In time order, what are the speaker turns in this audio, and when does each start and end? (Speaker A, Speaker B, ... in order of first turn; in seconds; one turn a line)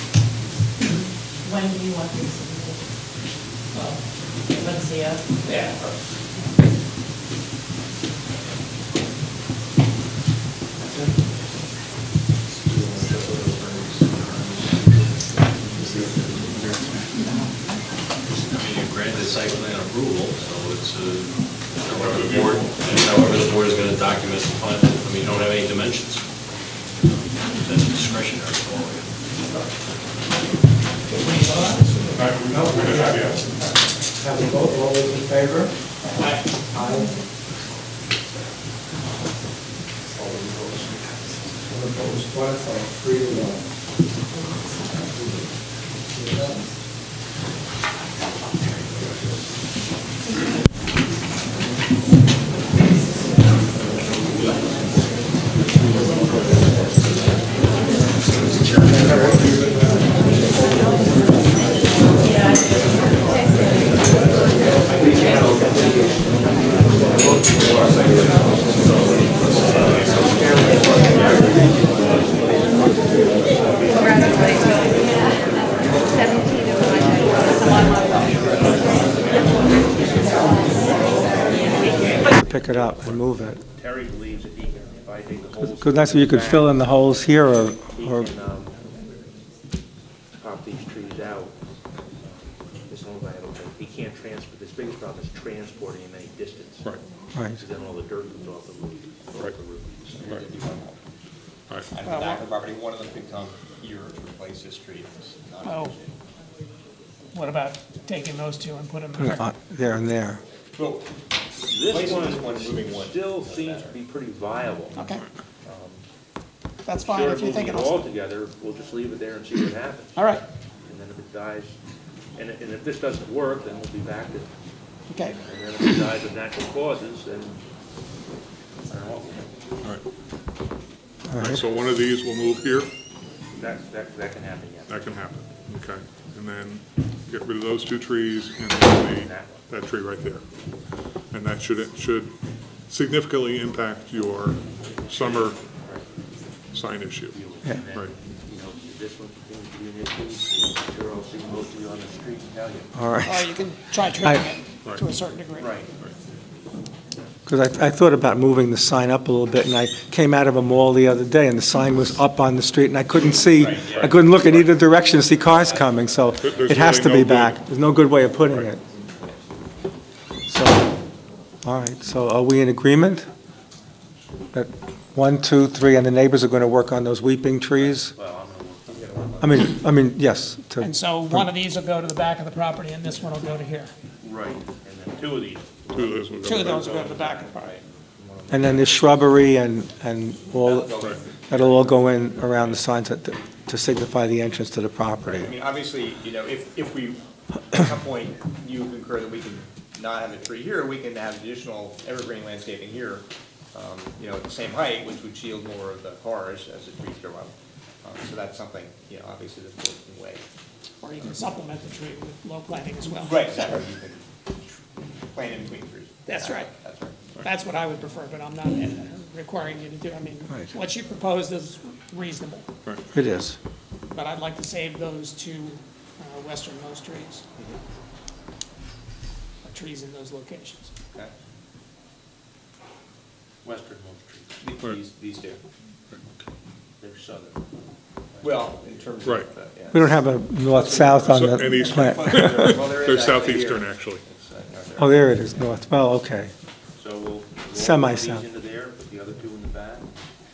Speaker A: 1.4-2.8
Speaker A: 4.5-5.4
Speaker B: 5.5-5.7
Speaker C: 18.3-26.2
Speaker D: 22.0-23.1
Speaker C: 27.1-29.1
Speaker B: 31.1-32.3
Speaker D: 32.1-33.5
Speaker E: 32.5-33.4
Speaker B: 32.9-33.4
Speaker E: 34.2-35.7
Speaker B: 36.1-36.4
Speaker E: 36.7-37.2
Speaker E: 41.6-43.6
Speaker E: 46.1-46.6
Speaker F: 81.8-86.8
Speaker E: 82.2-83.6
Speaker E: 85.6-88.3
Speaker F: 87.9-88.8
Speaker F: 90.4-91.5
Speaker F: 92.9-97.0
Speaker F: 97.5-100.3
Speaker G: 100.2-101.0
Speaker D: 101.7-101.9
Speaker G: 101.9-106.1
Speaker B: 102.1-102.4
Speaker B: 105.6-105.9
Speaker B: 107.3-109.5
Speaker E: 109.2-110.4
Speaker G: 110.8-111.1
Speaker F: 111.7-115.1
Speaker G: 111.8-114.0
Speaker B: 114.9-115.2
Speaker F: 115.7-116.0
Speaker B: 116.8-118.0
Speaker F: 117.0-120.2
Speaker B: 120.2-120.4
Speaker F: 120.9-121.8
Speaker F: 122.3-124.5
Speaker B: 125.1-125.4
Speaker F: 125.4-127.6
Speaker F: 128.9-129.5
Speaker E: 131.3-131.6
Speaker D: 131.3-132.9
Speaker F: 133.5-135.2
Speaker D: 134.9-140.4
Speaker F: 139.1-139.6
Speaker D: 141.3-142.3
Speaker D: 142.9-145.6
Speaker F: 145.1-146.1
Speaker D: 146.7-147.3
Speaker F: 147.3-152.9
Speaker E: 152.9-153.5
Speaker B: 153.3-155.7
Speaker F: 155.6-155.9
Speaker E: 157.4-168.8
Speaker G: 163.1-166.9
Speaker D: 166.3-167.6
Speaker G: 168.8-169.4
Speaker E: 170.5-170.9
Speaker E: 171.6-173.3
Speaker E: 174.5-178.1
Speaker F: 177.8-179.3
Speaker G: 178.9-179.6
Speaker E: 179.4-181.5
Speaker B: 180.8-183.9
Speaker F: 184.2-189.1
Speaker D: 185.9-187.0
Speaker B: 186.4-187.8
Speaker E: 188.5-195.5
Speaker G: 190.6-191.9
Speaker G: 195.2-197.2
Speaker G: 197.7-210.4
Speaker B: 211.0-213.4
Speaker G: 213.1-214.3
Speaker G: 215.3-217.3
Speaker B: 216.3-216.6
Speaker B: 217.4-222.6
Speaker E: 223.1-223.6
Speaker B: 224.1-227.4
Speaker B: 229.6-230.9
Speaker F: 233.6-234.6
Speaker G: 234.6-235.6
Speaker D: 236.1-236.4
Speaker F: 237.0-237.6
Speaker F: 238.3-239.1
Speaker G: 238.4-245.3
Speaker D: 239.2-239.5
Speaker E: 239.9-242.8
Speaker D: 241.1-244.2
Speaker E: 245.0-246.5
Speaker F: 247.0-250.1
Speaker E: 247.7-248.4